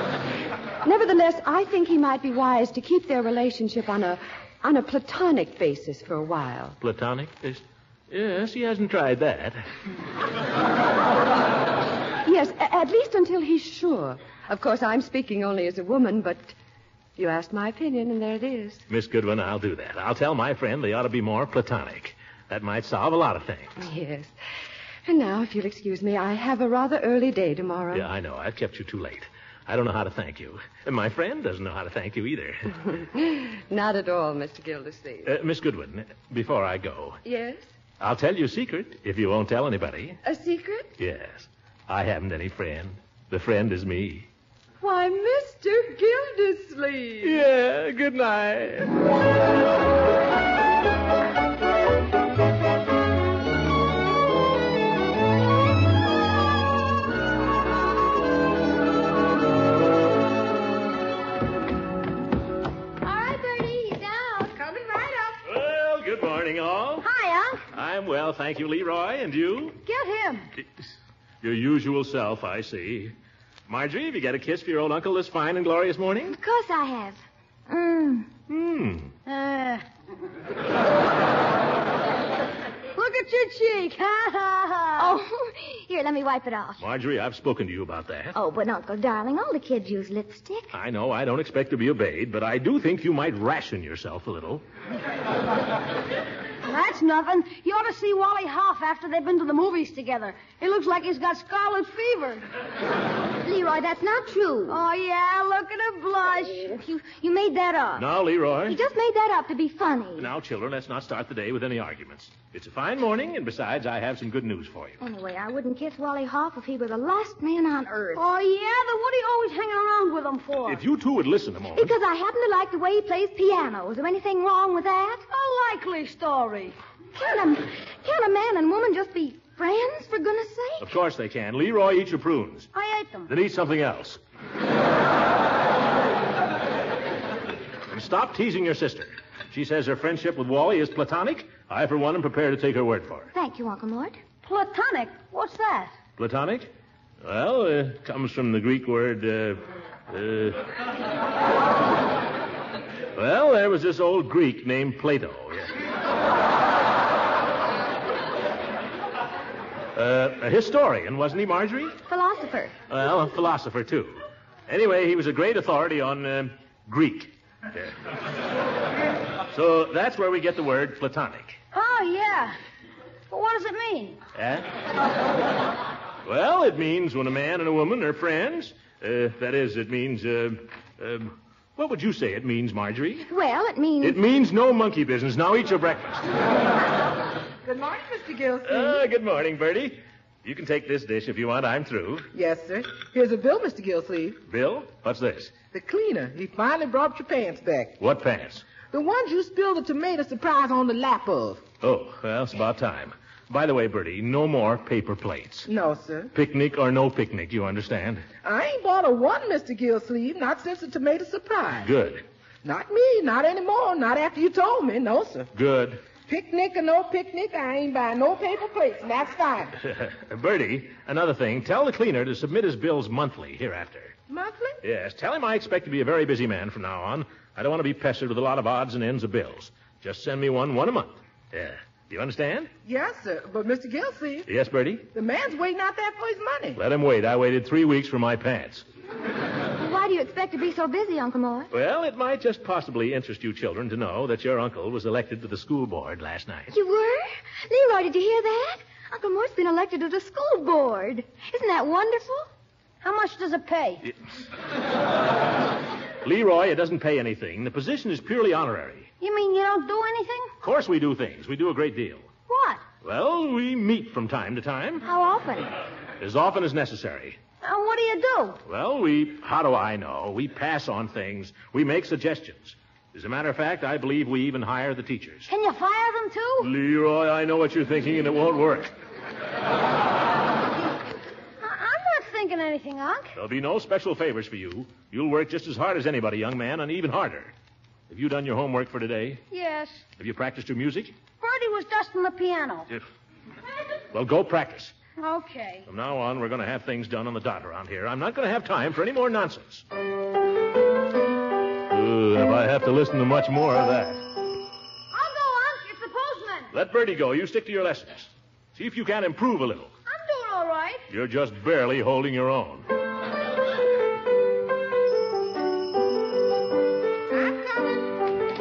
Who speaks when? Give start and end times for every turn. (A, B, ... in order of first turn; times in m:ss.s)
0:00.8-0:06.8 A
0:06.8-0:09.6 B
0:12.2-0:16.5 A
0:17.2-0:18.8 A
0:18.9-0:23.8 B
0:23.8-0:24.3 A
0:25.0-0:28.1 A
0:27.9-0:32.8 B
0:33.0-0:35.3 A
0:35.2-0:37.2 B
0:37.2-0:37.6 A
0:38.0-0:40.2 B
0:40.2-0:40.9 A
0:41.0-0:44.3 B
0:44.8-0:47.4 A
0:47.2-0:49.1 B
1:03.0-1:04.6 C
1:04.6-1:05.4 D
1:05.4-1:07.1 B
1:07.0-1:07.6 C
1:07.7-1:09.8 B
1:09.8-1:10.5 C
1:10.6-1:10.9 B
1:11.4-1:13.1 B
1:13.7-1:16.3 B
1:16.3-1:18.3 E
1:18.5-1:19.1 B
1:19.2-1:19.8 C
1:23.0-1:25.2 C
1:25.0-1:26.8 E
1:26.8-1:28.4 B
1:28.3-1:30.7 E
1:30.7-1:34.6 B
1:36.6-1:42.4 C
1:43.4-1:44.8 E
1:44.7-1:46.8 C
1:46.7-1:48.1 E
1:48.0-1:48.8 B
1:48.6-1:50.3 E
1:50.2-1:55.0 B
1:55.0-1:58.2 E
1:58.1-2:00.8 C
2:00.6-2:01.9 B
2:01.8-2:05.2 E
2:05.3-2:06.7 C
2:07.1-2:10.9 E
2:10.8-2:12.7 B
2:12.7-2:13.3 C
2:13.3-2:14.2 B
2:17.9-2:23.3 B
2:23.3-2:24.2 E
2:24.4-2:25.9 C
2:26.2-2:26.7 B
2:27.2-2:30.6 B
2:33.1-2:35.7 B
2:39.9-2:42.0 B
2:42.0-2:42.7 E
2:42.9-2:48.0 B
2:49.5-2:51.6 B
2:51.7-2:52.6 C
2:53.3-2:54.2 C
2:54.3-2:54.7 B
2:56.2-3:03.3 B
3:03.2-3:04.2 E
3:04.0-3:06.3 B
3:07.6-3:09.0 D
3:08.6-3:12.3 B
3:12.3-3:14.4 D
3:14.4-3:15.6 B
3:15.7-3:18.0 D
3:18.0-3:18.6 B
3:18.9-3:21.6 D
3:21.8-3:25.7 B
3:25.7-3:26.3 D
3:26.3-3:28.2 B
3:28.4-3:31.9 D
3:31.8-3:32.2 B
3:32.6-3:35.5 D
3:35.5-3:36.0 B
3:36.2-3:39.7 D
3:39.8-3:44.1 B
3:44.3-3:44.8 D
3:44.8-3:52.7 B
3:52.8-3:54.5 D
3:54.5-3:55.1 B
3:55.1-3:56.8 D
3:56.7-3:58.8 B
3:59.8-4:01.7 E
4:01.7-4:06.7 B
4:06.7-4:12.5 E
4:13.0-4:14.0 C
4:16.2-4:19.1 B
4:19.2-4:20.5 C
4:20.6-4:22.3 B
4:22.5-4:22.8 C
4:23.0-4:25.0 B
4:25.0-4:25.7 E
4:26.2-4:27.4 B
4:27.6-4:28.6 C
4:28.6-4:35.5 B
4:35.5-4:36.7 C
4:36.6-4:38.9 B
4:41.6-4:43.3 C
4:43.3-4:47.5 B
4:48.1-4:49.4 B
4:49.5-4:50.1 C
4:50.2-4:51.2 B
4:51.4-4:52.9 C
4:54.1-4:55.0 B
4:55.1-4:55.8 C
4:55.9-4:59.8 B
5:01.9-5:04.3 B
5:05.1-5:06.7 C
5:06.7-5:09.9 B
5:10.0-5:11.0 C
5:11.1-5:12.9 B
5:17.4-5:17.8 D